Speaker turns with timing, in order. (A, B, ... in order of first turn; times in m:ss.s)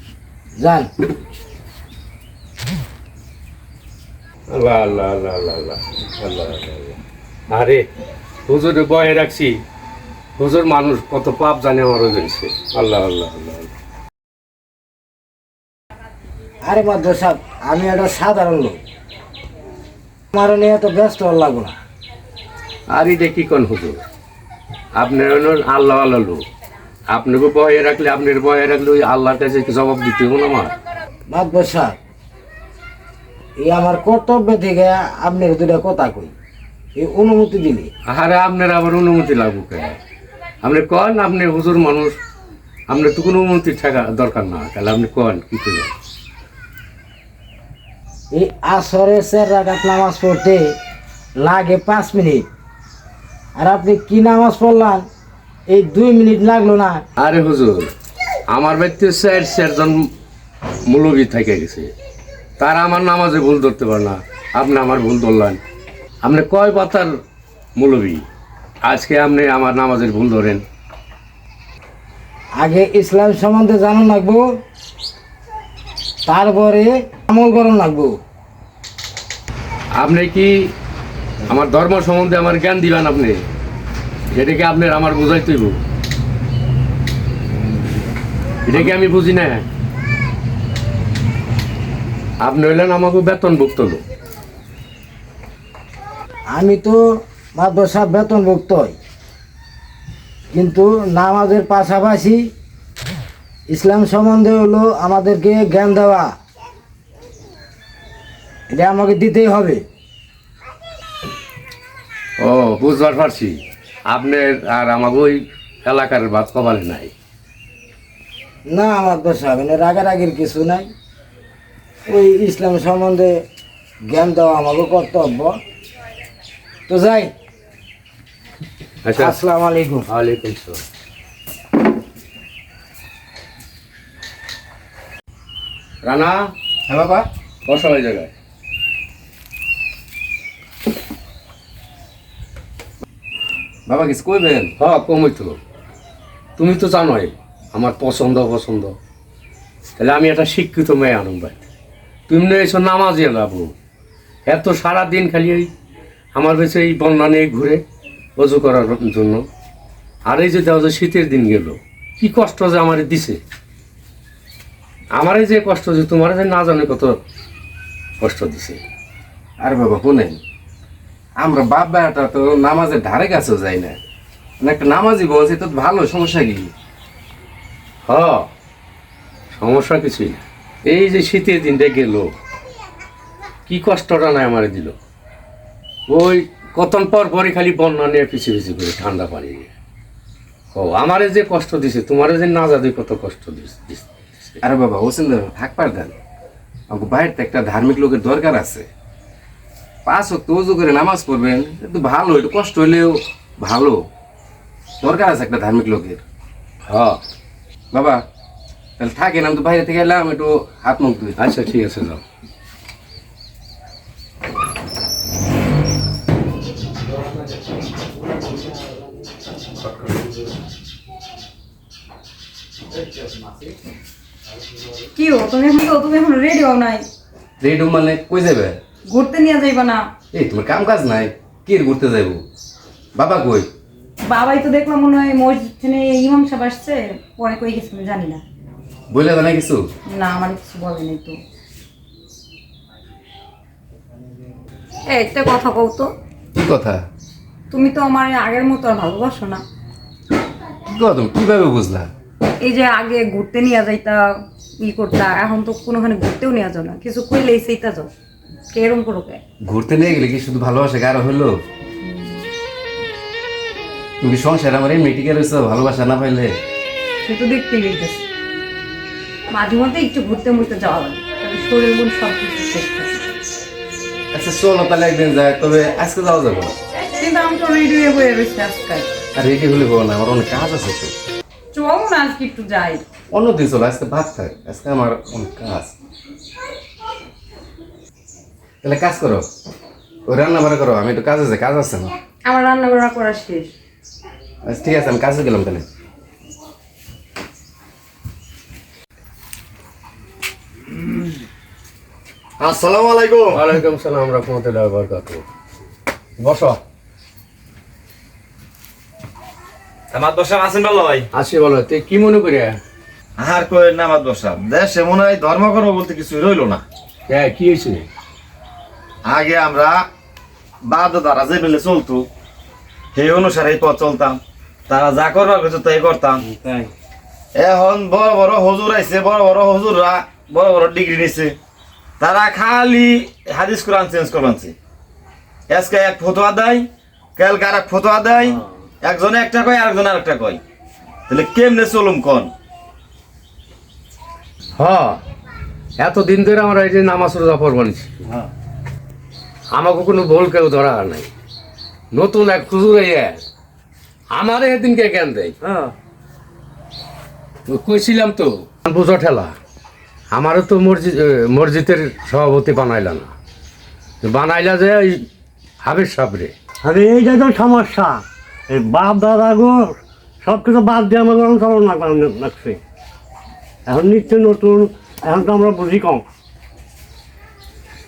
0:00.6-0:00.9 A
0:04.5-0:07.0 B
0:07.5-0:07.8 B
0:08.5-0:09.6 B
0:10.4-0:13.7 B
0:16.6-0:18.8 A
0:20.3-0:21.7 A
0:22.9-0:24.0 B
0:25.0-0:26.4 B
0:27.1-0:30.7 B
0:31.3-0:32.0 A
0:33.6-0:36.3 A
0:37.0-0:37.9 A
0:38.1-0:40.0 B
0:40.6-0:42.2 B
0:42.9-0:45.9 B
0:48.3-0:50.7 A
0:51.4-0:52.4 A
0:53.6-0:55.0 A
0:55.7-0:57.0 A
0:57.2-0:57.9 B
0:58.5-1:00.1 B
1:00.9-1:01.9 B
1:02.6-1:05.6 B
1:06.2-1:07.1 B
1:07.8-1:08.2 B
1:08.8-1:10.6 B
1:12.6-1:14.4 A
1:16.2-1:18.1 A
1:20.0-1:20.7 B
1:21.5-1:23.4 B
1:24.3-1:25.8 B
1:28.6-1:29.6 B
1:32.4-1:34.0 B
1:36.5-1:37.0 A
1:37.6-1:38.9 A
1:40.5-1:42.4 A
1:43.7-1:46.3 A
1:48.7-1:49.8 A
1:52.4-1:57.1 B
1:58.7-2:00.9 A
2:02.1-2:03.4 A
2:04.1-2:05.5 A
2:06.9-2:07.3 A
2:09.0-2:09.4 B
2:09.2-2:10.1 A
2:10.1-2:10.8 B
2:16.0-2:16.5 B
2:16.9-2:17.3 C
2:17.6-2:18.3 B
2:23.9-2:24.7 C
2:24.8-2:25.6 B
2:26.6-2:28.9 B
2:30.0-2:31.6 B
2:32.3-2:33.7 B
2:34.4-2:35.7 B
2:36.3-2:37.8 B
2:38.4-2:39.4 B
2:40.2-2:43.4 B
2:45.2-2:47.2 B
2:48.2-2:48.8 B
2:49.6-2:50.4 C
2:51.4-2:54.0 C
2:54.6-2:56.7 C
2:58.1-2:58.5 B
2:59.6-3:02.3 B
3:03.7-3:04.9 B
3:06.1-3:09.7 B
3:10.7-3:14.6 B
3:14.6-3:16.1 C
3:16.9-3:18.8 C
3:20.0-3:24.0 C
3:25.0-3:26.2 C
3:26.9-3:27.2 B
3:27.9-3:28.2 C
3:29.0-3:31.3 C
3:31.4-3:32.2 B
3:45.2-3:47.0 D
3:47.6-3:48.8 C
3:49.1-3:50.0 D
3:50.3-3:52.4 C
3:53.1-3:53.7 C
3:54.3-3:58.4 D
3:59.1-3:59.9 C
4:00.1-4:01.4 D
4:05.1-4:06.1 D
4:06.6-4:07.0 C
4:07.7-4:09.6 D
4:10.9-4:12.1 C
4:12.6-4:14.2 D
4:14.8-4:18.1 D
4:18.7-4:19.4 D
4:19.6-4:21.5 C
4:22.0-4:22.4 D
4:24.2-4:26.5 C
4:27.2-4:28.2 D
4:29.5-4:33.2 D
4:34.3-4:36.7 C
4:37.1-4:39.1 D
4:39.3-4:41.1 C
4:41.7-4:43.0 D
4:43.3-4:45.9 C
4:48.8-4:49.4 C
4:50.3-4:52.1 C
4:52.4-4:53.7 D
4:54.6-4:55.8 C
5:02.6-5:03.6 E
5:03.5-5:05.4 B
5:06.4-5:06.8 B
5:10.1-5:11.3 E
5:11.3-5:12.8 B
5:13.4-5:16.8 E
5:17.3-5:18.1 B
5:19.2-5:20.0 E
5:20.8-5:22.3 E
5:23.1-5:26.4 E
5:26.5-5:26.9 B
5:27.5-5:31.6 E
5:32.2-5:34.7 E
5:35.7-5:40.6 E
5:41.3-5:42.5 E
5:44.8-5:45.2 B
5:46.0-5:48.2 B
5:49.7-5:51.3 B
5:52.1-5:53.4 B
5:54.3-5:55.6 B
5:57.7-5:59.5 B
6:00.3-6:03.3 B
6:04.2-6:05.2 B
6:05.8-6:06.5 B
6:06.8-6:12.8 F
6:13.8-6:16.2 F